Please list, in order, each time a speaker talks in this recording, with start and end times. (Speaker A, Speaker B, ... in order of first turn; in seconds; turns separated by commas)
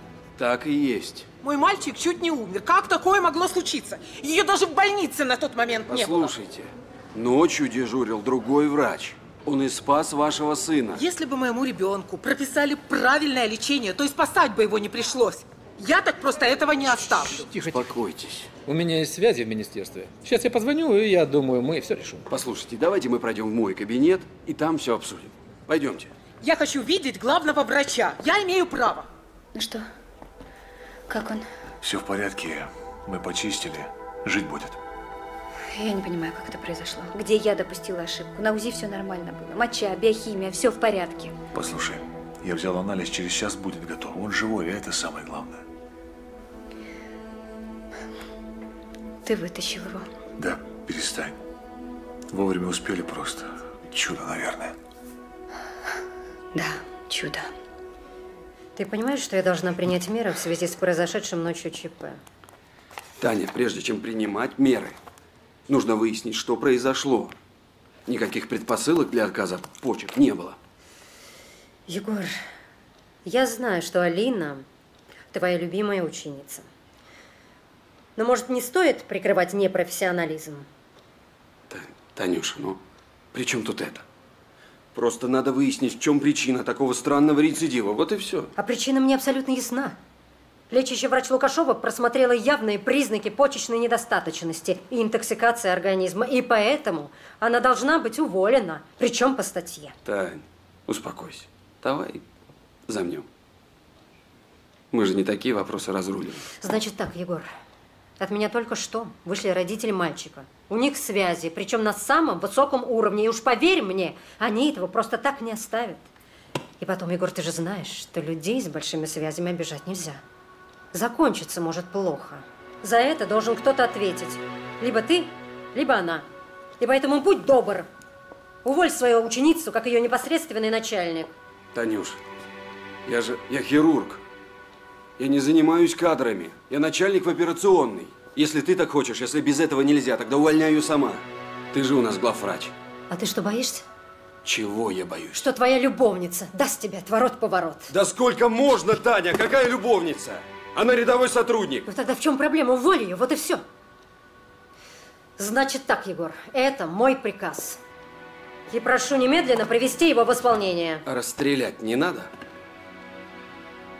Speaker A: 0.4-1.3, Speaker B: 1.4-6.3, Speaker A: 5.9-11.0, Speaker B: 10.9-17.5, Speaker C: 17.4-17.9, Speaker A: 17.5-18.5, Speaker C: 18.6-22.3, Speaker A: 22.3-26.1, Speaker B: 26.4-29.1, Speaker D: 29.5-29.8, Speaker D: 31.1-31.4, Speaker E: 31.8-34.8, Speaker D: 35.6-41.3, Speaker E: 41.5-45.6, Speaker D: 49.2-50.1, Speaker E: 50.4-51.4, Speaker E: 52.3-54.7, Speaker D: 56.5-57.5, Speaker F: 58.8-62.2, Speaker A: 63.2-65.0, Speaker A: 65.7-67.3, Speaker A: 68.1-70.6, Speaker F: 71.9-72.3, Speaker F: 73.2-74.7, Speaker F: 75.3-76.7, Speaker F: 78.2-80.7, Speaker A: 81.7-82.8, Speaker A: 83.3-84.0, Speaker A: 84.9-88.5, Speaker F: 88.6-90.0, Speaker F: 90.7-99.9, Speaker A: 100.0-102.2, Speaker A: 102.9-103.2, Speaker A: 104.9-106.5, Speaker F: 106.6-107.5, Speaker F: 108.2-116.1, Speaker F: 116.8-120.2, Speaker F: 120.9-126.3, Speaker F: 126.8-127.9, Speaker F: 128.6-131.3, Speaker A: 131.7-132.2, Speaker A: 133.1-134.2, Speaker A: 135.2-142.7, Speaker F: 143.1-143.8, Speaker A: 144.4-145.4, Speaker F: 145.3-147.9, Speaker A: 147.9-151.9, Speaker F: 151.9-153.6, Speaker F: 155.4-157.8, Speaker F: 158.7-161.0, Speaker A: 161.1-162.3